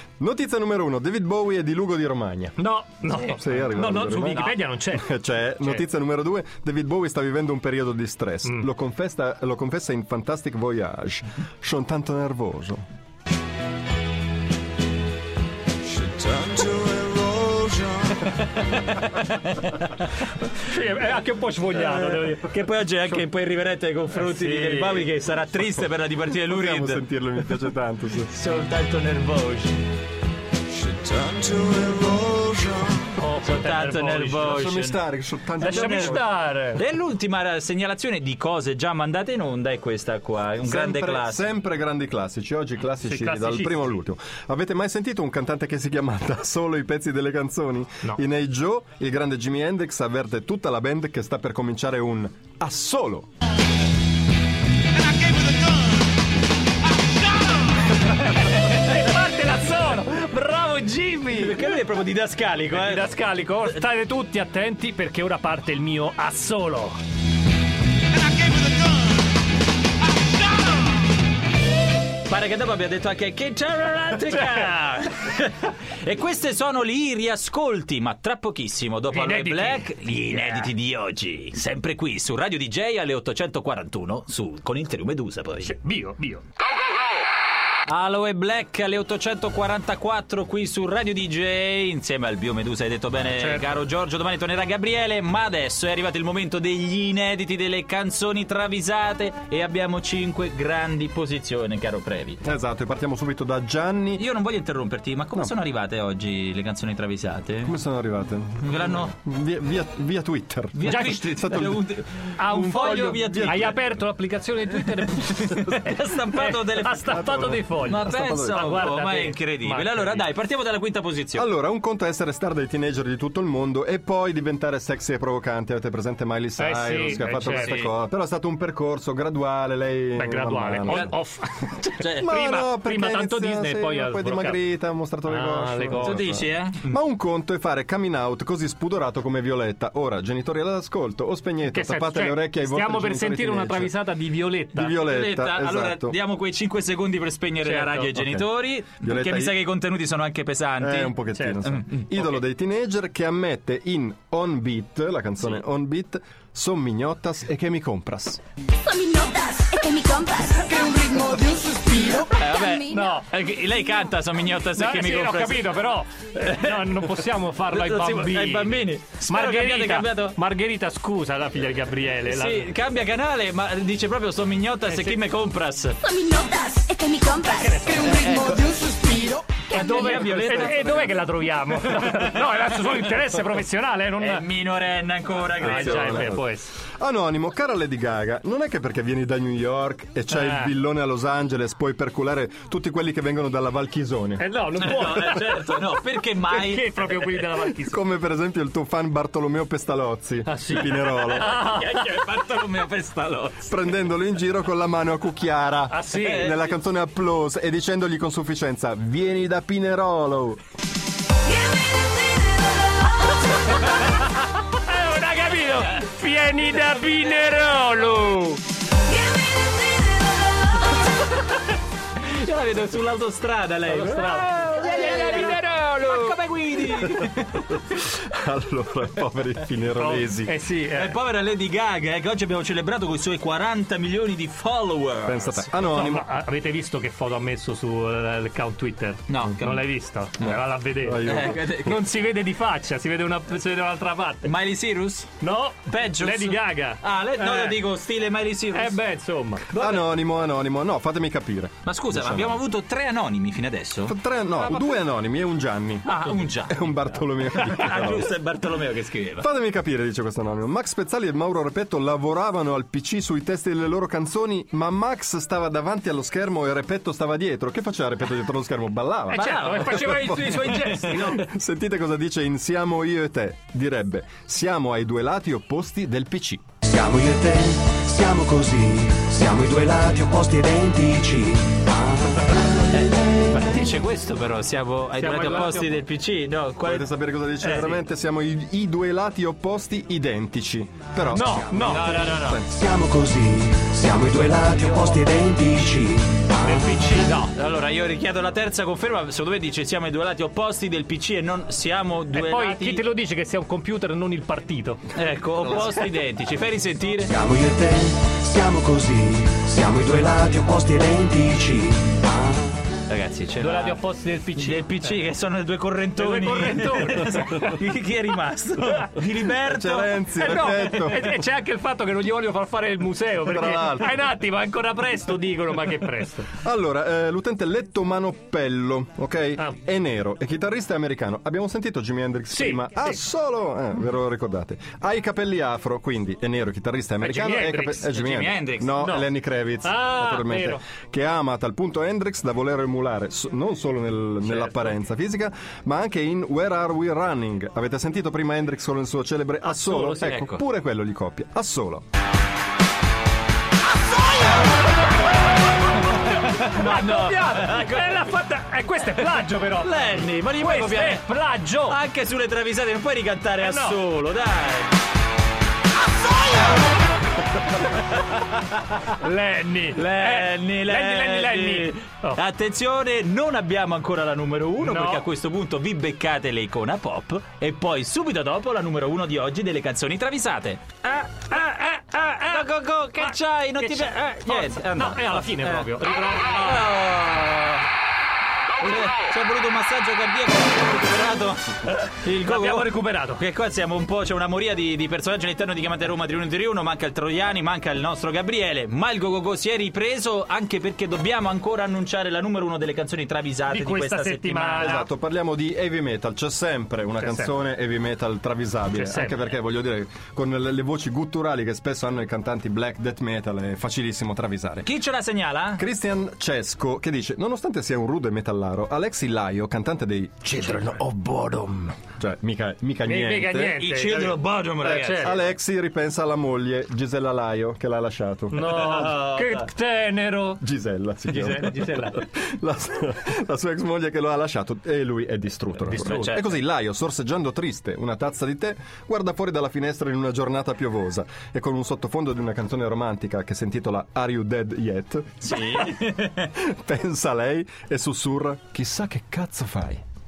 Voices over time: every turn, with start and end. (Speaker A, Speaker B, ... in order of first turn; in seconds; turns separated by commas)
Speaker A: 0.2-12.8, Speaker B: 2.6-5.1, Speaker C: 16.1-20.1, Speaker B: 20.6-23.2, Speaker C: 21.7-27.5, Speaker B: 24.2-25.1, Speaker A: 26.4-28.3, Speaker C: 28.3-29.9, Speaker A: 31.2-33.0, Speaker C: 31.8-32.8, Speaker B: 33.0-34.7, Speaker C: 33.4-35.0, Speaker A: 34.5-36.2, Speaker B: 35.6-36.8, Speaker C: 35.6-36.2, Speaker C: 36.8-41.5, Speaker A: 40.6-53.3, Speaker B: 43.0-43.9, Speaker C: 57.4-57.8, Speaker B: 58.0-61.7, Speaker C: 61.3-63.8, Speaker B: 62.7-67.0, Speaker C: 68.3-68.8, Speaker C: 72.3-85.7, Speaker B: 74.3-74.7, Speaker B: 79.1-80.7, Speaker B: 85.6-86.4, Speaker C: 87.9-102.4, Speaker B: 93.3-93.8, Speaker A: 102.4-104.2, Speaker C: 104.2-107.7, Speaker A: 107.6-111.8, Speaker C: 108.6-109.1, Speaker C: 110.7-113.8, Speaker B: 110.9-111.8, Speaker B: 112.4-120.3, Speaker A: 112.5-114.0, Speaker C: 114.9-121.5, Speaker A: 117.1-118.9, Speaker A: 121.3-131.1, Speaker B: 126.6-127.9, Speaker C: 127.2-127.9, Speaker B: 130.1-134.6, Speaker C: 130.9-131.1, Speaker C: 132.0-132.3, Speaker A: 132.1-144.0, Speaker B: 135.2-136.4, Speaker C: 136.0-137.0, Speaker B: 141.7-144.9, Speaker A: 144.7-146.2, Speaker C: 145.0-152.4, Speaker B: 147.6-148.1, Speaker A: 148.2-149.6, Speaker A: 150.8-158.4, Speaker B: 151.3-151.6, Speaker D: 158.8-161.8, Speaker C: 161.8-167.2, Speaker B: 162.9-163.3, Speaker B: 164.7-172.7, Speaker C: 167.7-170.4, Speaker C: 172.2-176.2, Speaker B: 174.9-175.2, Speaker D: 176.1-178.3, Speaker B: 177.5-178.1, Speaker C: 178.0-181.3, Speaker B: 179.7-184.4, Speaker C: 184.2-186.4, Speaker B: 185.6-186.7, Speaker A: 185.6-186.4, Speaker A: 187.0-194.5, Speaker B: 190.3-190.7, Speaker B: 194.4-198.0, Speaker C: 194.8-197.3, Speaker A: 197.5-201.5, Speaker B: 200.4-202.0, Speaker C: 201.3-203.7, Speaker A: 203.7-210.6, Speaker B: 205.9-206.5, Speaker C: 206.1-206.8, Speaker B: 214.7-218.6, Speaker C: 222.2-228.0, Speaker B: 223.9-226.4, Speaker A: 227.8-230.6, Speaker B: 229.9-231.2, Speaker C: 230.9-235.7, Speaker A: 235.2-236.2, Speaker B: 235.8-244.5, Speaker C: 239.3-239.9, Speaker A: 240.4-242.0, Speaker C: 241.2-242.0, Speaker C: 244.4-249.0, Speaker B: 245.4-247.8, Speaker B: 248.7-249.7, Speaker A: 249.7-252.6, Speaker C: 249.7-250.0, Speaker C: 251.8-254.1, Speaker A: 254.1-258.3, Speaker B: 254.6-255.0, Speaker C: 256.1-256.9, Speaker C: 257.6-259.5, Speaker A: 259.4-276.6, Speaker B: 269.3-271.4, Speaker C: 269.3-271.4, Speaker E: 276.9-282.3, Speaker C: 282.9-287.1, Speaker B: 285.1-286.0, Speaker A: 286.8-292.7, Speaker C: 287.6-288.0, Speaker B: 291.3-292.6, Speaker C: 291.9-292.7, Speaker E: 292.7-296.8, Speaker B: 296.6-297.4, Speaker C: 297.2-303.1, Speaker B: 302.3-305.0, Speaker C: 305.1-307.4, Speaker E: 307.3-312.7, Speaker C: 313.1-314.0, Speaker B: 313.6-314.9, Speaker C: 314.6-320.2, Speaker B: 316.2-317.8, Speaker A: 319.6-321.4, Speaker B: 320.4-326.6, Speaker A: 323.5-324.2, Speaker A: 326.5-352.0, Speaker B: 332.5-333.2, Speaker B: 337.2-338.1, Speaker C: 338.1-339.1, Speaker B: 339.0-339.3, Speaker B: 339.8-340.9, Speaker B: 344.4-344.9, Speaker B: 349.6-350.0, Speaker C: 349.9-350.6, Speaker B: 356.0-362.0, Speaker C: 356.1-358.2, Speaker C: 359.2-361.3, Speaker C: 361.8-365.0, Speaker B: 363.6-364.0, Speaker B: 369.1-372.4, Speaker C: 369.9-387.9, Speaker B: 374.8-375.2, Speaker B: 382.4-386.9, Speaker C: 388.8-405.0, Speaker B: 392.3-393.4, Speaker B: 403.7-405.1, Speaker A: 404.8-414.9, Speaker B: 407.2-407.5, Speaker B: 408.9-409.4, Speaker C: 414.8-415.8, Speaker A: 415.8-421.0, Speaker B: 420.6-422.0, Speaker A: 422.1-423.8, Speaker B: 423.1-425.4, Speaker C: 423.8-425.5, Speaker A: 424.8-428.7, Speaker B: 428.5-430.6, Speaker C: 428.6-429.7, Speaker A: 430.6-446.0, Speaker B: 431.2-432.2, Speaker B: 435.9-436.4, Speaker C: 436.0-436.6, Speaker C: 445.4-446.5, Speaker A: 446.6-450.0